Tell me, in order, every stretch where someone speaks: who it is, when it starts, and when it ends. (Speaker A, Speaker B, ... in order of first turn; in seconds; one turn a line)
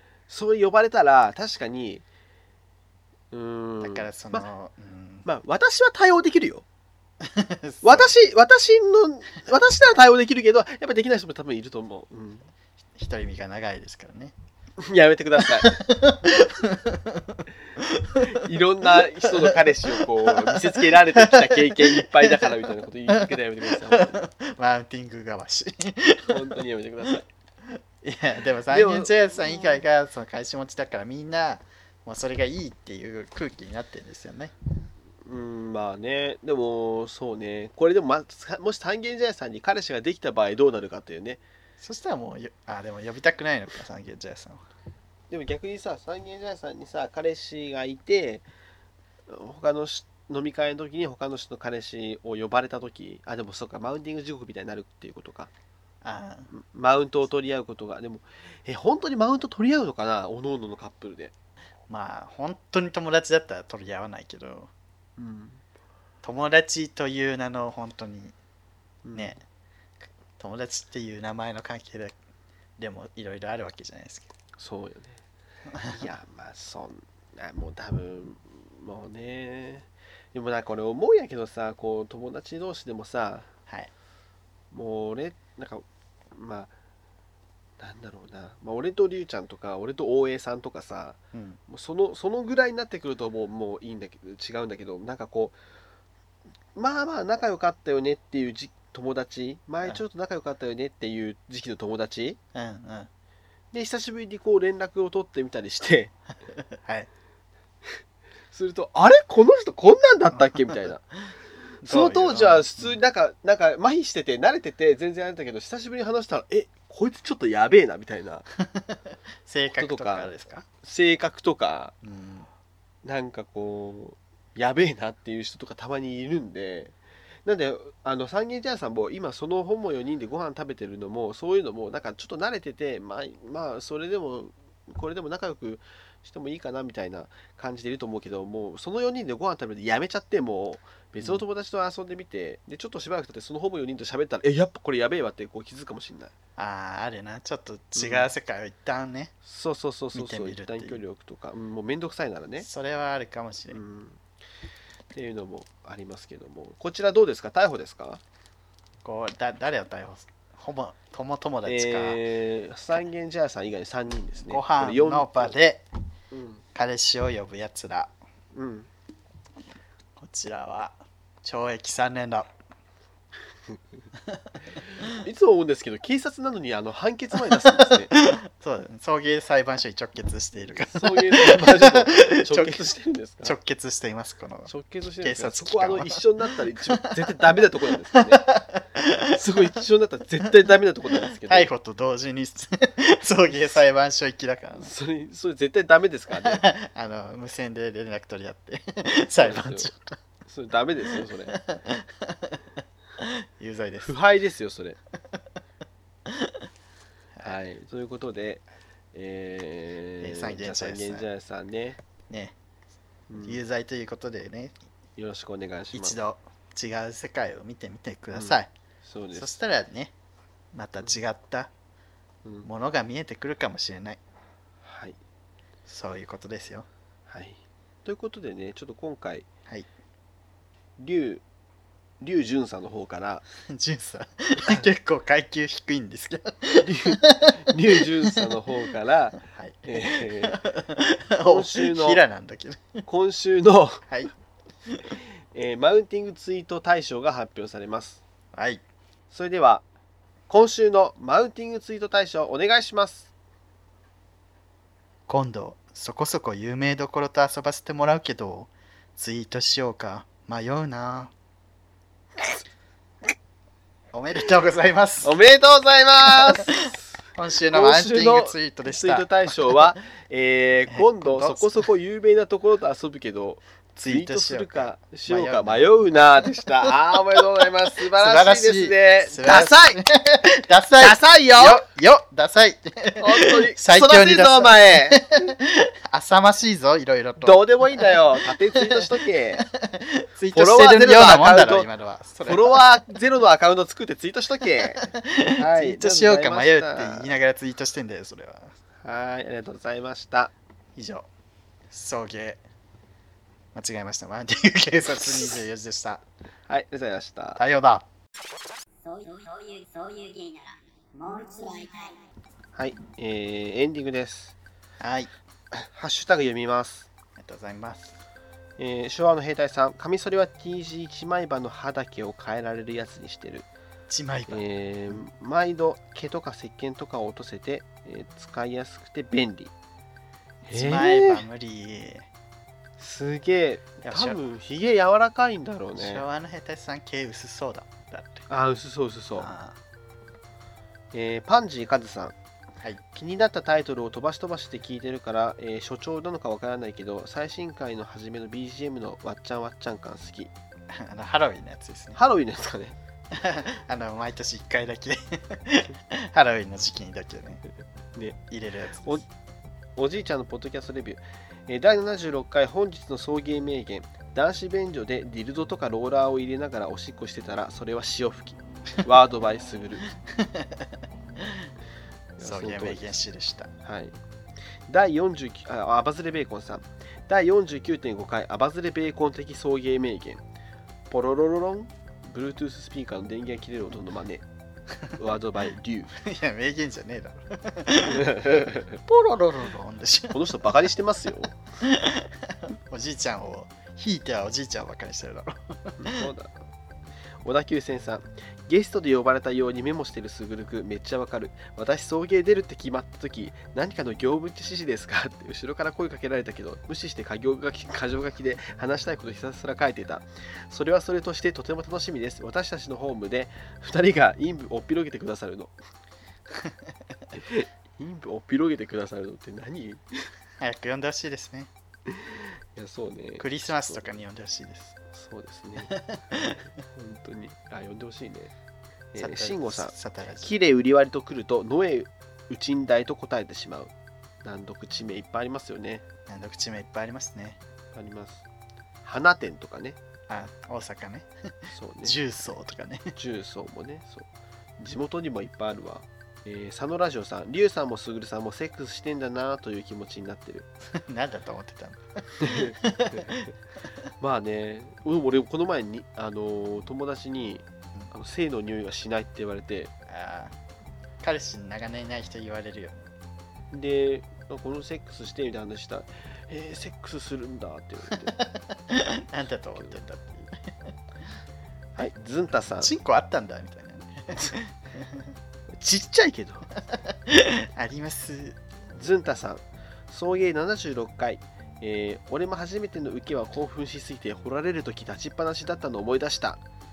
Speaker A: 0.3-2.0
Speaker A: 3.3-4.5
Speaker B: 3.8-5.3
Speaker A: 5.2-6.7
Speaker B: 7.2-8.1
Speaker A: 7.8-12.5
Speaker B: 13.0-14.3
Speaker A: 14.8-15.8
Speaker B: 15.6-22.5
Speaker A: 18.2-24.2
Speaker B: 23.1-26.6
Speaker A: 26.3-27.3
Speaker B: 27.7-34.5
Speaker A: 28.7-29.7
Speaker A: 35.2-41.4
Speaker B: 41.8-44.6
Speaker A: 45.3-48.5
Speaker A: 49.3-55.5
Speaker B: 56.0-56.5
Speaker A: 56.5-61.3
Speaker B: 61.9-64.7
Speaker A: 65.2-65.6
Speaker B: 66.2-68.3
Speaker A: 69.0-69.4
Speaker B: 69.1-69.4
Speaker B: 70.4-72.2
Speaker B: 72.8-74.3
Speaker A: 74.6-75.2
Speaker B: 75.7-76.0
Speaker A: 75.8-83.5
Speaker A: 84.7-86.7
Speaker A: 87.8-95.6
Speaker B: 91.3-91.6
Speaker A: 96.8-102.4
Speaker B: 102.5-103.1
Speaker A: 103.7-106.1
Speaker B: 106.5-107.1
Speaker A: 108.5-111.0
Speaker B: 110.5-110.8
Speaker B: 111.8-113.0
Speaker A: 111.8-118.5
Speaker B: 118.6-120.7
Speaker A: 119.8-122.0
Speaker B: 122.0-122.5
Speaker A: 123.0-146.3
Speaker B: 146.6-149.3
Speaker A: 147.9-148.3
Speaker A: 149.4-152.7
Speaker B: 150.1-151.0
Speaker B: 152.6-153.8
Speaker A: 153.7-154.2
Speaker A: 155.1-158.2
Speaker B: 159.0-162.2
Speaker A: 161.7-165.6
Speaker B: 164.4-165.9
Speaker A: 166.3-166.6
Speaker B: 166.8-168.1
Speaker A: 168.5-168.9
Speaker B: 170.2-172.5
Speaker A: 174.9-178.1
Speaker B: 177.5-182.8
Speaker A: 180.8-183.5
Speaker B: 183.4-186.2
Speaker A: 184.7-188.5
Speaker B: 186.8-187.1
Speaker B: 188.2-189.4
Speaker A: 189.3-191.7
Speaker B: 191.4-194.9
Speaker A: 194.8-196.7
Speaker B: 196.3-200.2
Speaker A: 199.4-199.9
Speaker A: 200.5-201.6
Speaker B: 201.5-202.6
Speaker B: 203.2-204.2
Speaker A: 204.0-205.0
Speaker B: 206.3-206.6
Speaker A: 207.4-212.0
Speaker B: 210.2-211.3
Speaker B: 212.3-212.6
Speaker A: 213.3-213.6
Speaker B: 213.4-214.8
Speaker A: 215.2-216.2
Speaker B: 215.9-218.7
Speaker A: 218.3-219.5
Speaker B: 219.3-220.1
Speaker B: 220.7-221.7
Speaker B: 222.6-224.2
Speaker A: 224.8-225.2
Speaker B: 225.9-226.9
Speaker A: 227.3-229.5
Speaker A: 231.0-231.4
Speaker A: 232.2-233.4
Speaker B: 233.7-238.6
Speaker A: 236.8-240.6
Speaker B: 239.5-243.0
Speaker A: 241.4-242.2
Speaker A: 243.1-244.1
Speaker A: 245.5-248.2
Speaker B: 248.5-248.8
Speaker A: 249.3-249.9
Speaker A: 250.5-253.3
Speaker B: 255.3-261.3
Speaker B: 264.1-265.3
Speaker A: 265.2-267.0
Speaker B: 266.4-266.7
Speaker B: 267.4-269.9
Speaker A: 267.7-280.0
Speaker B: 270.9-271.9
Speaker B: 274.0-277.4
Speaker B: 278.2-288.2
Speaker A: 281.0-281.9
Speaker A: 283.2-285.5
Speaker A: 287.4-289.7
Speaker B: 288.7-289.1
Speaker B: 289.6-293.0
Speaker A: 290.5-291.9
Speaker A: 292.4-297.3
Speaker B: 295.0-298.7
Speaker A: 299.0-300.5
Speaker B: 300.9-301.3
Speaker B: 301.9-302.6
Speaker B: 303.7-306.2
Speaker A: 306.7-307.6
Speaker B: 307.6-308.1
Speaker C: 309.0-312.2
Speaker A: 312.8-314.6
Speaker B: 315.0-315.3
Speaker A: 315.7-317.1
Speaker B: 317.4-318.2
Speaker A: 318.8-323.7
Speaker B: 324.1-325.2
Speaker A: 324.5-329.7
Speaker A: 330.7-331.4
Speaker B: 330.7-332.3
Speaker A: 333.0-336.3
Speaker B: 334.1-334.4
Speaker B: 335.9-338.5
Speaker A: 338.5-339.5
Speaker B: 339.4-339.8
Speaker A: 341.1-342.4
Speaker A: 343.1-350.5
Speaker B: 350.9-352.2
Speaker A: 352.1-353.0
Speaker B: 353.3-357.6
Speaker A: 358.1-358.4
Speaker B: 358.5-359.2
Speaker A: 360.0-370.1
Speaker B: 370.3-371.7
Speaker A: 372.4-373.2
Speaker B: 372.4-373.7
Speaker A: 373.8-374.2
Speaker A: 374.9-380.4
Speaker A: 381.1-384.4
Speaker A: 385.1-386.1
Speaker B: 386.2-388.5
Speaker A: 388.1-389.0
Speaker B: 389.0-390.7
Speaker A: 390.3-391.6
Speaker B: 391.8-396.3
Speaker A: 396.0-396.6
Speaker A: 397.4-415.8
Speaker A: 417.3-420.3
Speaker B: 420.6-421.7
Speaker A: 422.1-424.1
Speaker B: 423.4-425.0
Speaker A: 425.1-428.5
Speaker B: 425.8-426.6
Speaker A: 429.1-433.9
Speaker B: 429.2-430.6
Speaker A: 434.4-436.0
Speaker B: 436.3-437.6
Speaker A: 437.9-438.5
Speaker A: 439.0-440.0
Speaker B: 440.3-443.1
Speaker A: 441.7-442.2
Speaker A: 443.1-450.7
Speaker B: 450.9-453.4
Speaker A: 452.4-453.3
Speaker A: 454.2-459.9
Speaker B: 460.1-460.5
Speaker B: 461.2-463.1
Speaker A: 463.7-468.4
Speaker B: 468.4-470.9
Speaker A: 472.0-472.9
Speaker B: 472.8-475.3
Speaker A: 475.7-476.7
Speaker B: 476.9-478.6
Speaker A: 478.9-486.6